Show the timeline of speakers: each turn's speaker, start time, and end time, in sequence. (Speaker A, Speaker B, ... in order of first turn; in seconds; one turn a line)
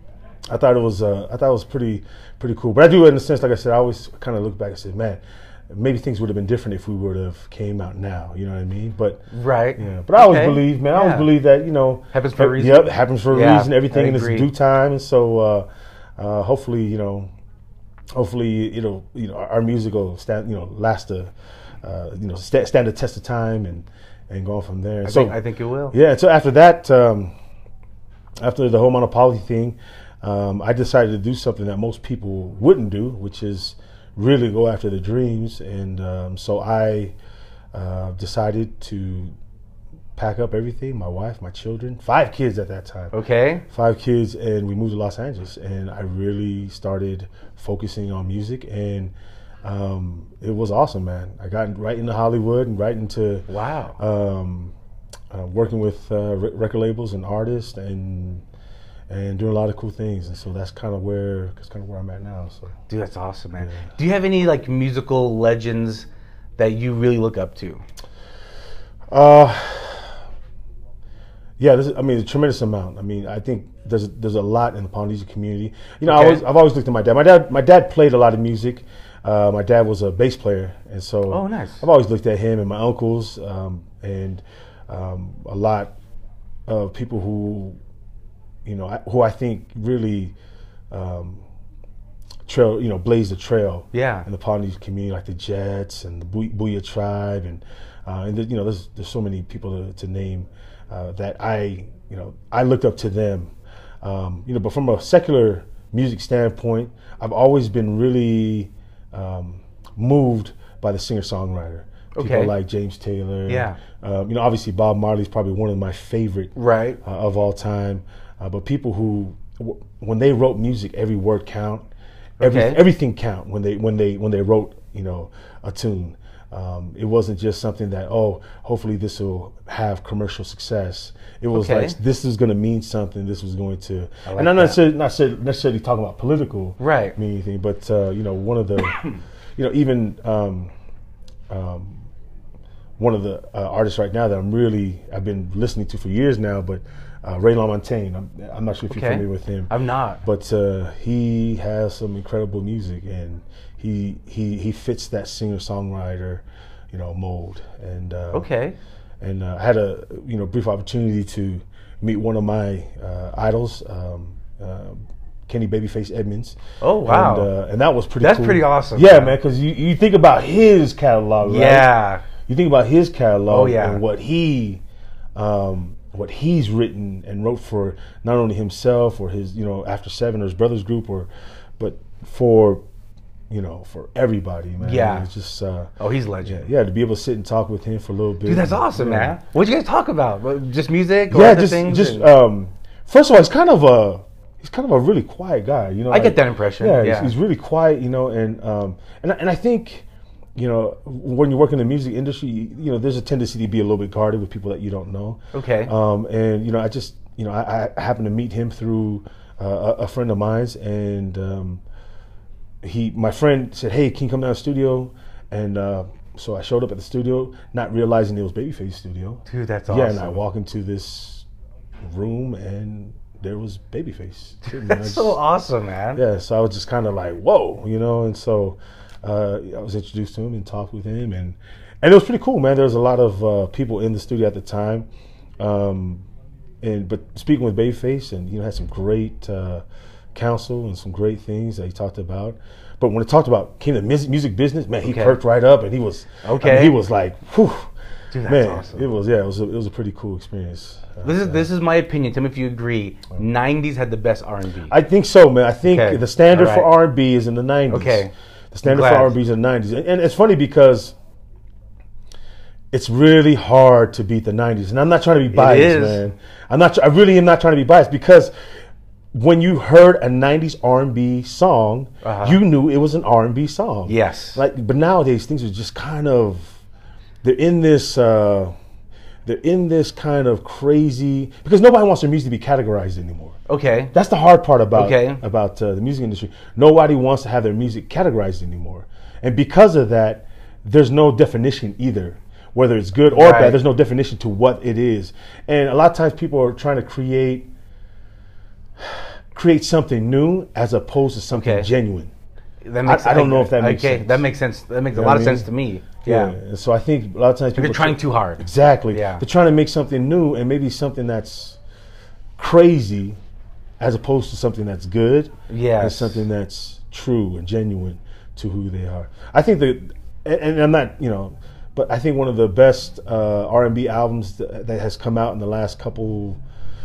Speaker A: 0.5-9.2
Speaker B: 9.3-11.3
Speaker A: 9.8-15.7
Speaker B: 12.1-14.5
Speaker A: 16.2-17.3
Speaker A: 18.1-21.3
Speaker A: 21.8-25.4
Speaker B: 25.1-25.9
Speaker A: 25.9-27.3
Speaker A: 28.4-37.1
Speaker A: 37.7-39.3
Speaker A: 40.2-43.1
Speaker B: 43.1-43.6
Speaker A: 43.7-49.1
Speaker A: 49.6-54.7
Speaker B: 53.5-54.0
Speaker A: 55.3-58.4
Speaker A: 59.1-62.8
Speaker B: 62.9-66.1
Speaker A: 63.6-63.9
Speaker B: 66.6-67.8
Speaker A: 69.1-70.2
Speaker A: 71.6-85.9
Speaker B: 76.1-76.4
Speaker B: 81.3-81.8
Speaker A: 86.7-87.8
Speaker A: 88.7-90.3
Speaker A: 90.9-91.4
Speaker A: 92.5-121.9
Speaker B: 93.9-94.3
Speaker B: 112.2-112.5
Speaker B: 113.5-113.8
Speaker B: 116.6-117.0
Speaker B: 122.4-122.8
Speaker A: 122.4-139.0
Speaker B: 131.5-132.0
Speaker B: 134.3-134.8
Speaker B: 136.8-137.2
Speaker A: 139.6-140.7
Speaker A: 141.5-142.0
Speaker A: 143.0-149.7
Speaker B: 148.9-150.2
Speaker A: 150.2-158.5
Speaker B: 158.3-158.8
Speaker A: 159.2-171.9
Speaker B: 166.8-167.5
Speaker B: 168.2-169.4
Speaker B: 171.4-172.2
Speaker A: 172.4-174.8
Speaker B: 173.5-174.0
Speaker A: 175.3-182.8
Speaker A: 183.5-185.9
Speaker B: 184.8-185.3
Speaker B: 186.0-186.7
Speaker A: 186.4-189.4
Speaker B: 188.4-192.3
Speaker A: 191.3-200.1
Speaker B: 196.1-197.3
Speaker A: 200.6-211.8
Speaker B: 205.5-205.9
Speaker A: 212.8-221.4
Speaker B: 219.5-220.4
Speaker A: 222.0-225.4
Speaker B: 224.7-226.2
Speaker A: 226.2-235.1
Speaker A: 235.6-236.2
Speaker A: 236.8-239.8
Speaker A: 240.3-247.9
Speaker B: 245.0-245.4
Speaker B: 246.4-247.0
Speaker B: 248.3-249.1
Speaker A: 248.5-251.7
Speaker B: 251.2-254.9
Speaker A: 254.9-261.1
Speaker B: 255.8-256.9
Speaker B: 257.9-258.3
Speaker B: 258.9-259.4
Speaker A: 262.9-268.5
Speaker B: 265.5-266.2
Speaker A: 269.3-276.8
Speaker B: 272.2-272.6
Speaker B: 274.1-274.6
Speaker A: 277.4-278.7
Speaker A: 279.5-283.6
Speaker B: 283.7-284.1
Speaker A: 284.1-297.7
Speaker B: 284.9-285.4
Speaker B: 293.3-293.8
Speaker A: 299.0-302.3
Speaker B: 301.5-301.9
Speaker B: 302.8-306.6
Speaker A: 303.1-304.4
Speaker A: 305.1-305.7
Speaker A: 306.2-311.8
Speaker B: 307.8-309.4
Speaker A: 312.6-313.4
Speaker A: 314.0-326.6
Speaker B: 315.7-316.4